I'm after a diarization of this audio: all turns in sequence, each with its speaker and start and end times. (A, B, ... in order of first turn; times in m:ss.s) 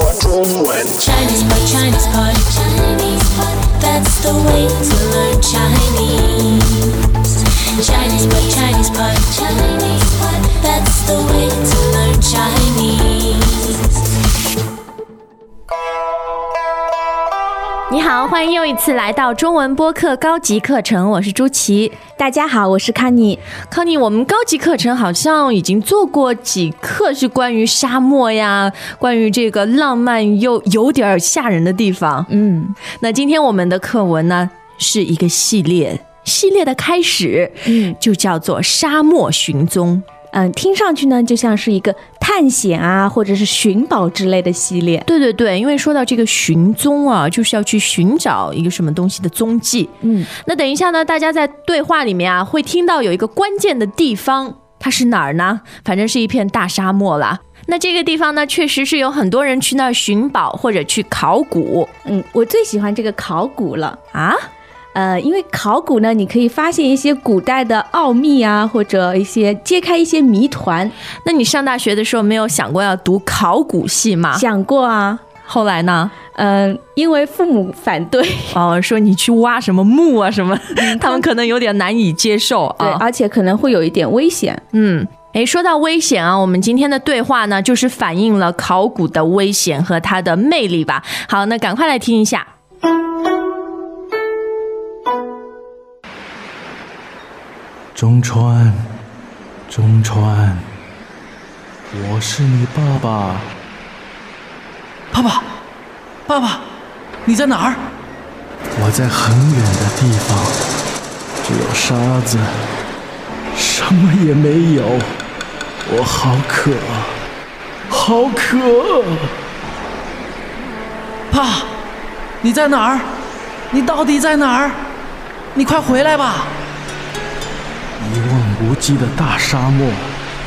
0:00.9-0:07.0 A
0:07.8-0:13.8 A
0:17.9-0:22.0 B
0:22.2-0:23.4 C
0:23.7-0:32.3 B
0:32.3-0:32.8 C
0:32.9-0:40.0 B
0:37.7-0:38.0 C
0:40.3-0:45.1 C
0:45.1-1:01.9 B
0:50.0-0:50.3 C
1:02.0-1:04.0 C
1:04.1-1:04.5 B
1:04.9-1:10.9 C
1:11.2-1:14.4 B
1:14.3-1:15.2 C
1:15.4-1:16.2 B
1:16.3-1:18.6 C
1:18.5-1:23.0 B
1:20.8-1:21.3 C
1:22.8-1:24.6 C
1:24.7-1:32.5 B
1:38.0-1:38.8 D
1:39.7-1:40.7 D
1:41.9-1:43.6 D
1:45.1-1:45.6 E
1:46.3-1:47.9 E
1:48.7-1:50.6 D
1:51.4-1:52.5 D
1:53.5-1:55.2 D
1:55.8-1:57.2 D
1:57.9-1:59.3 D
2:01.3-2:01.8 E
2:02.4-2:05.0 E
2:05.5-2:06.7 E
2:08.0-2:10.2 D